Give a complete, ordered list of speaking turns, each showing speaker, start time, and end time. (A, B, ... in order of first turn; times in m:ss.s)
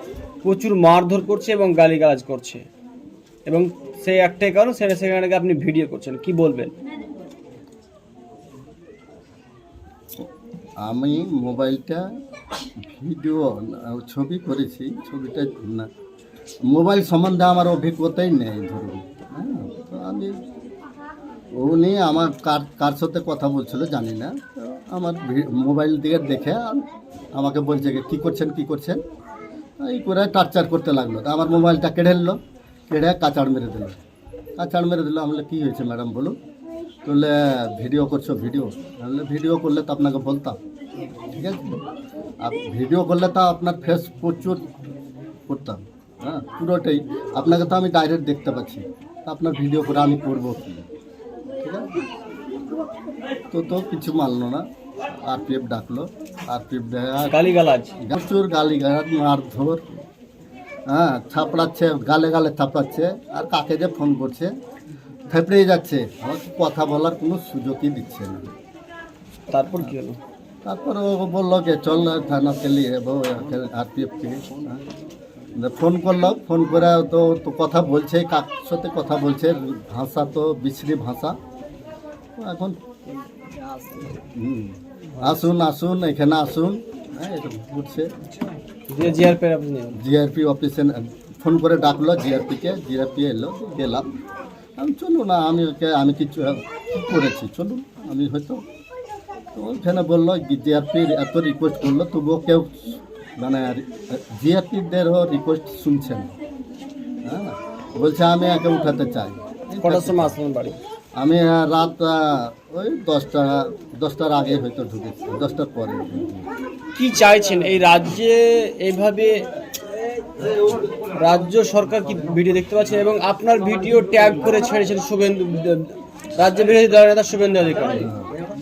0:00.4-0:02.6 A
0:03.4-0:06.7 A
0:10.8-0:12.0 B
0:12.8-0:15.9 B
0:16.7-0:20.4 B
0:21.5-0:29.0 B
0:29.8-0:32.4 B
0:32.9-0:34.0 B
0:34.6-0:36.4 B
0:37.0-0:40.6 B
0:41.3-0:41.8 B
0:42.4-0:44.7 B
0:45.5-0:50.8 B
0:51.6-0:52.0 B
0:53.5-0:57.4 B
0:57.2-0:57.9 A
0:58.0-1:00.0 B
1:00.9-1:04.5 B
1:05.3-1:08.5 B
1:09.5-1:10.2 A
1:10.6-1:14.8 B
1:15.6-1:21.4 B
1:22.4-1:22.8 B
1:23.7-1:28.1 B
1:28.9-1:30.0 A
1:29.9-1:34.1 B
1:34.8-1:38.6 B
1:39.5-1:46.3 B
1:47.2-1:50.4 B
1:49.8-1:50.8 A
1:51.2-1:56.5 B
1:57.0-1:59.4 A
2:01.1-2:08.1 A
2:08.0-2:08.3 B